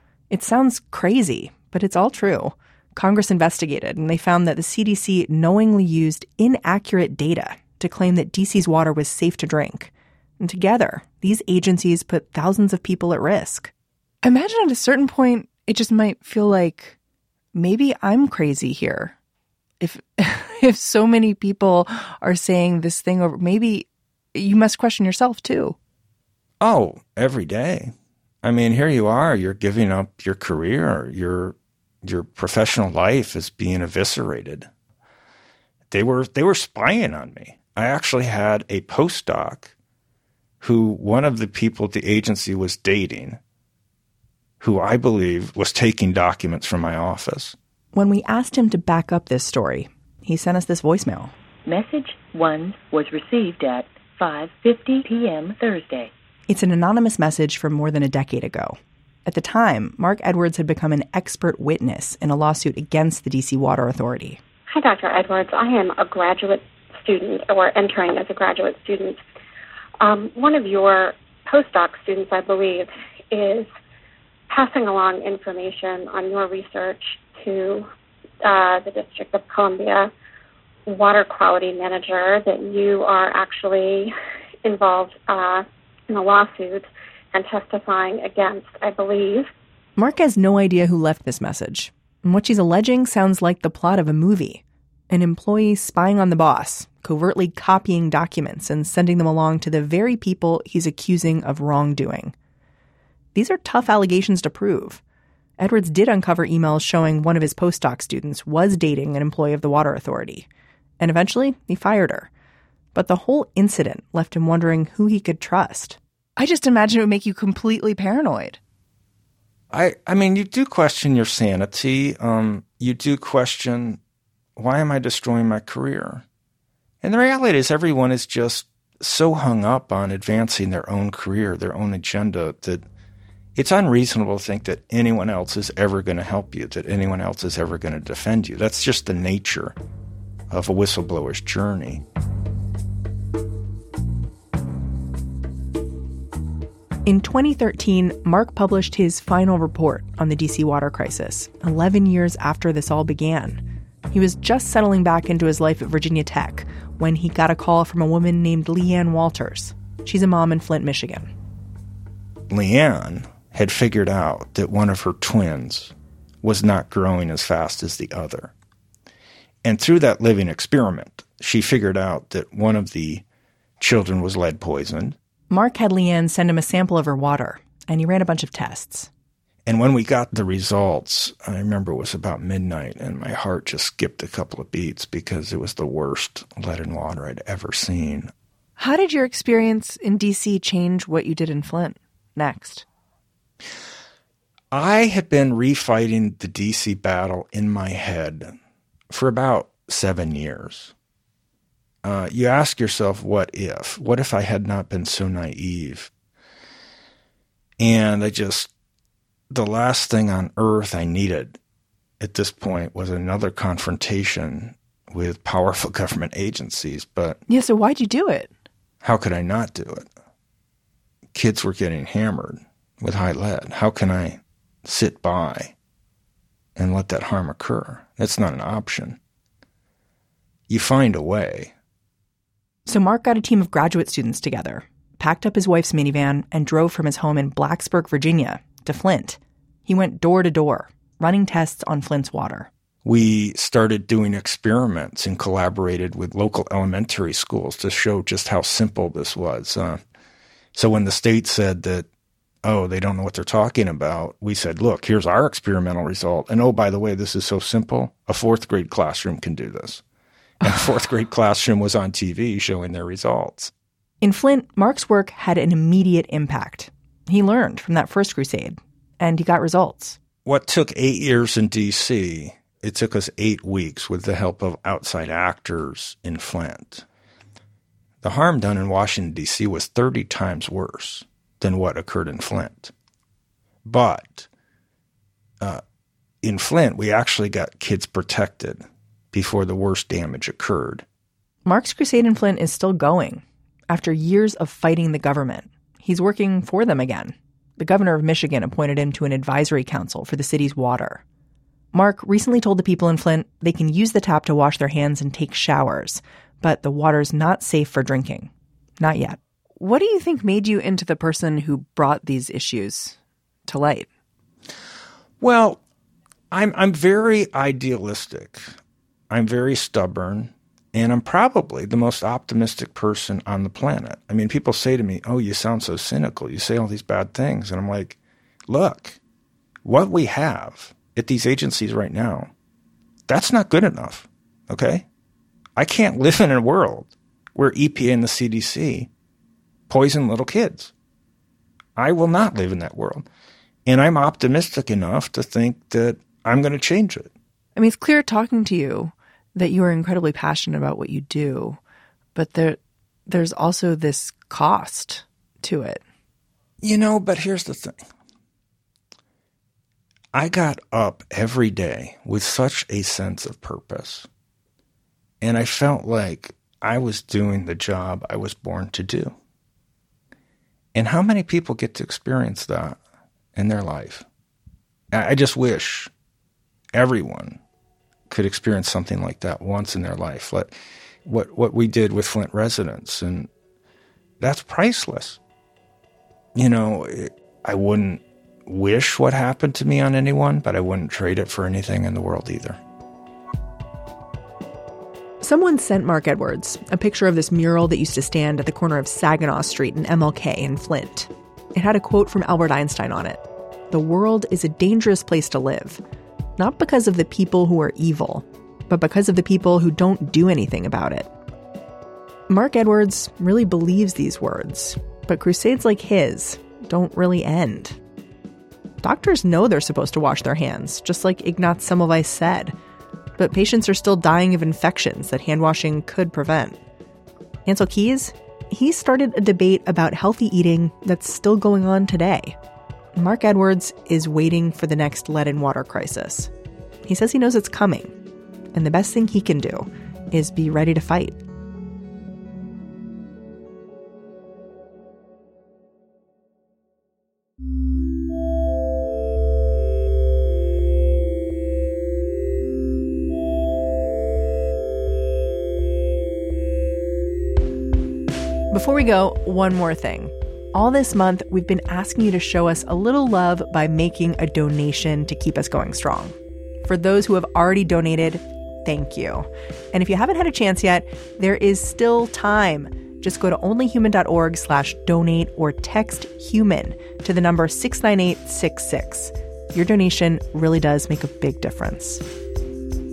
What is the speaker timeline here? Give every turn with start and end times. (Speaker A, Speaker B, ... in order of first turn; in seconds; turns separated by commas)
Speaker A: 0.3-17.0, Speaker A: 17.5-19.1, Speaker A: 19.8-25.8, Speaker B: 26.6-34.7, Speaker B: 35.9-39.7, Speaker B: 40.6-43.4, Speaker B: 44.6-47.6, Speaker A: 47.9-51.4, Speaker C: 51.6-56.1, Speaker A: 56.5-64.4, Speaker D: 64.7-69.2, Speaker D: 70.0-73.7, Speaker D: 74.5-77.9, Speaker D: 78.4-80.1, Speaker D: 80.9-84.1, Speaker D: 84.6-89.5, Speaker A: 90.0-102.3, Speaker A: 103.3-105.0, Speaker A: 105.6-110.5, Speaker A: 111.0-112.3, Speaker A: 112.9-118.6, Speaker B: 119.7-124.0, Speaker B: 124.6-126.2, Speaker B: 127.0-132.9, Speaker B: 133.6-139.8, Speaker B: 140.5-142.0, Speaker A: 147.1-161.3, Speaker B: 162.5-168.5, Speaker B: 169.6-173.2, Speaker B: 173.8-175.2, Speaker A: 175.5-179.1, Speaker B: 179.7-188.3, Speaker A: 188.8-192.8, Speaker B: 194.7-198.5, Speaker B: 199.1-200.9, Speaker B: 202.0-206.1, Speaker B: 207.8-208.7, Speaker B: 209.5-211.6, Speaker B: 212.2-217.4, Speaker A: 217.5-218.5, Speaker B: 219.0-220.1, Speaker B: 221.3-225.7, Speaker B: 226.8-229.2, Speaker B: 230.7-231.7, Speaker A: 232.9-242.7, Speaker B: 243.1-250.0, Speaker B: 250.8-252.1, Speaker B: 252.6-260.0, Speaker B: 260.6-263.7, Speaker A: 264.2-270.2, Speaker B: 270.4-277.1, Speaker B: 278.2-282.9, Speaker B: 283.9-284.5, Speaker B: 286.4-291.1, Speaker A: 291.6-301.2, Speaker A: 301.9-313.1, Speaker A: 313.7-314.1, Speaker B: 315.4-315.8, Speaker B: 316.5-318.8, Speaker B: 319.3-329.2, Speaker B: 329.9-332.5, Speaker B: 333.3-335.1, Speaker B: 335.8-339.1, Speaker B: 339.9-340.9, Speaker B: 342.0-343.3, Speaker B: 343.9-347.3, Speaker A: 347.8-351.8, Speaker A: 352.4-356.0, Speaker B: 356.8-358.0, Speaker B: 360.3-364.3, Speaker B: 365.4-369.4, Speaker B: 370.9-373.0, Speaker B: 373.6-374.2, Speaker B: 375.1-376.1, Speaker B: 376.9-377.6, Speaker B: 378.3-380.7, Speaker B: 381.2-383.5, Speaker B: 384.4-385.4, Speaker B: 386.6-392.8, Speaker A: 395.4-406.0, Speaker A: 406.6-411.3, Speaker A: 412.5-418.0, Speaker A: 419.0-422.8, Speaker A: 423.4-426.8, Speaker A: 427.6-432.6, Speaker A: 433.1-436.5, Speaker A: 437.1-438.1, Speaker A: 438.7-441.4, Speaker A: 458.7-482.2